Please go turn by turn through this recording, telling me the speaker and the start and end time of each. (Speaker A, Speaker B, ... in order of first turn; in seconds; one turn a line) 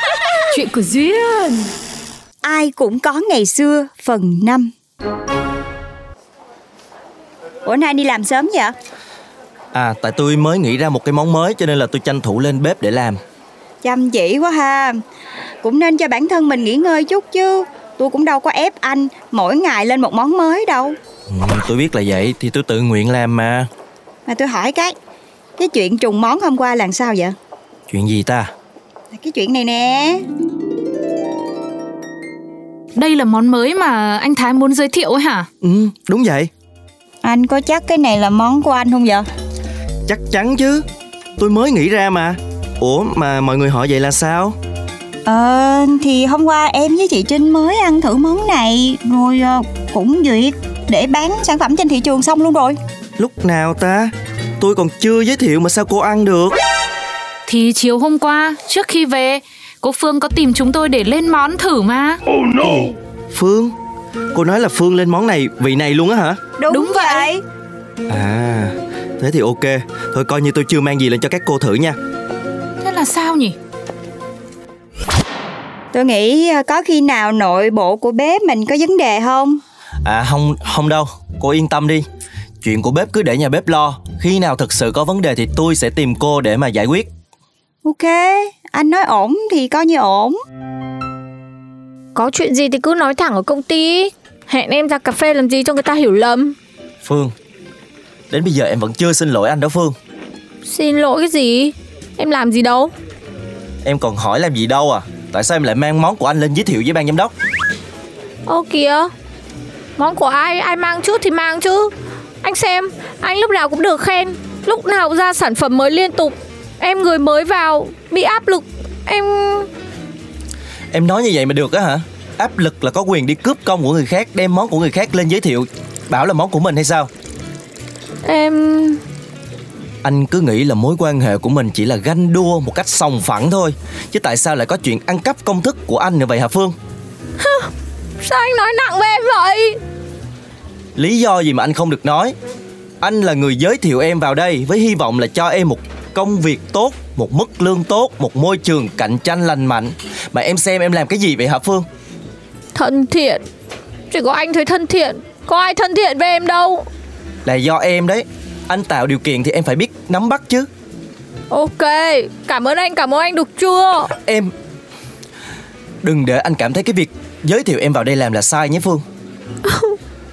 Speaker A: 0.5-1.7
Speaker B: 2.4-4.7
Speaker B: 7.7-8.7
Speaker C: 9.7-13.2
Speaker B: 13.8-15.0
Speaker B: 15.6-20.9
Speaker C: 21.3-23.7
Speaker B: 24.3-24.9
Speaker B: 25.6-27.3
Speaker C: 27.9-28.5
Speaker B: 29.1-30.2
Speaker A: 32.9-35.5
Speaker C: 35.6-36.5
Speaker B: 37.2-39.2
Speaker C: 40.1-40.8
Speaker C: 41.4-44.5
Speaker B: 45.2-52.8
Speaker C: 53.2-56.6
Speaker A: 57.5-62.2
Speaker C: 62.5-63.7
Speaker C: 64.3-66.4
Speaker B: 66.6-67.4
Speaker A: 66.7-67.3
Speaker C: 68.1-72.0
Speaker A: 72.8-73.6
Speaker B: 75.9-79.6
Speaker C: 80.0-82.0
Speaker C: 82.6-87.1
Speaker B: 87.8-90.3
Speaker D: 92.1-96.5
Speaker C: 97.0-97.3
Speaker C: 98.3-99.9
Speaker D: 100.6-102.9
Speaker C: 103.8-107.3
Speaker D: 108.5-109.1
Speaker D: 110.0-111.9
Speaker D: 112.4-119.7
Speaker C: 120.9-127.1
Speaker D: 128.2-129.0
Speaker C: 130.0-136.7
Speaker D: 137.4-137.7
Speaker D: 138.2-139.8
Speaker C: 141.0-142.3
Speaker C: 143.0-151.8
Speaker D: 152.7-153.4
Speaker D: 154.1-156.8
Speaker C: 157.4-160.7
Speaker D: 161.5-164.1
Speaker C: 164.2-164.5
Speaker C: 166.0-169.0
Speaker D: 169.6-170.0